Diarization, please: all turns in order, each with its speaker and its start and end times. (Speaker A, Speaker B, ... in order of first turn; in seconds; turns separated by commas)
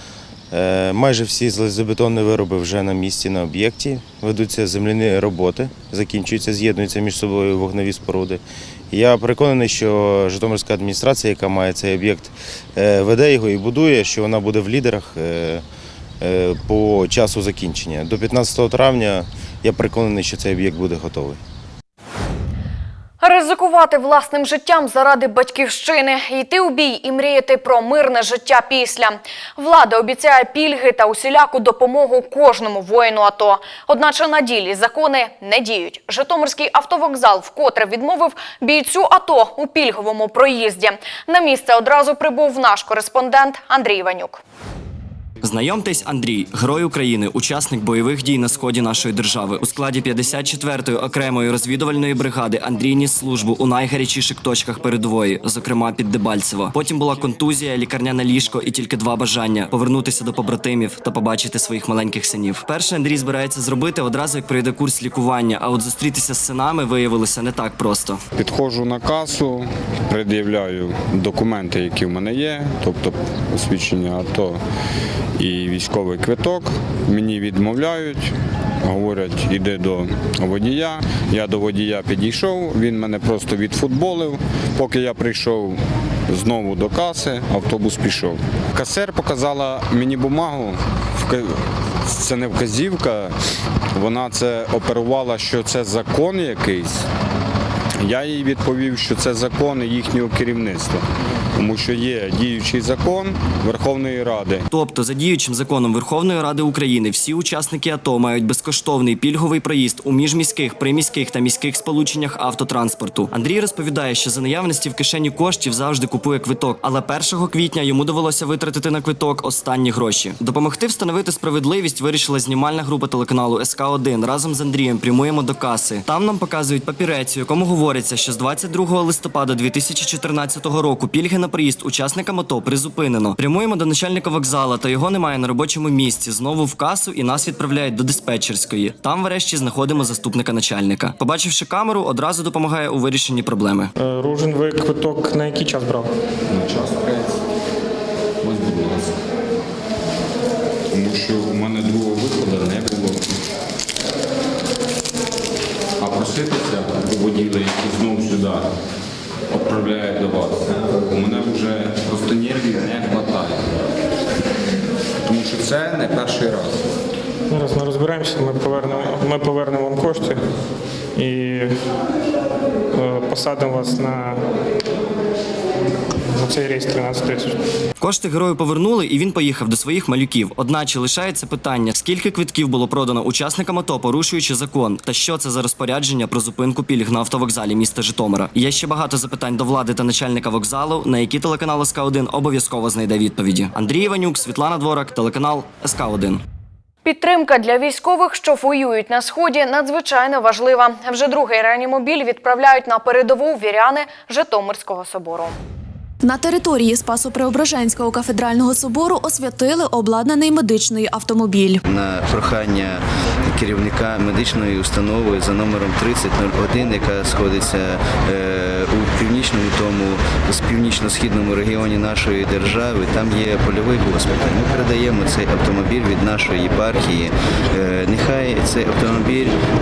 Speaker A: 0.5-15.6, Speaker A: 16.2-21.4, Speaker B: 23.2-44.4, Speaker C: 45.4-68.2, Speaker D: 68.4-74.6, Speaker D: 75.4-78.3, Speaker D: 78.8-85.8, Speaker D: 86.3-91.5, Speaker D: 92.1-93.3, Speaker D: 94.0-97.0, Speaker D: 98.0-101.0, Speaker D: 101.6-104.7, Speaker C: 104.7-143.9, Speaker E: 144.1-146.1, Speaker D: 146.5-147.3, Speaker D: 148.4-149.1, Speaker D: 150.9-153.2, Speaker D: 156.0-158.7, Speaker D: 159.5-163.7, Speaker D: 165.2-166.8, Speaker E: 167.5-170.4, Speaker E: 171.2-171.7, Speaker E: 173.0-174.4, Speaker E: 176.3-177.6, Speaker C: 178.0-196.4, Speaker B: 197.1-205.6, Speaker F: 206.2-211.8, Speaker G: 211.9-229.5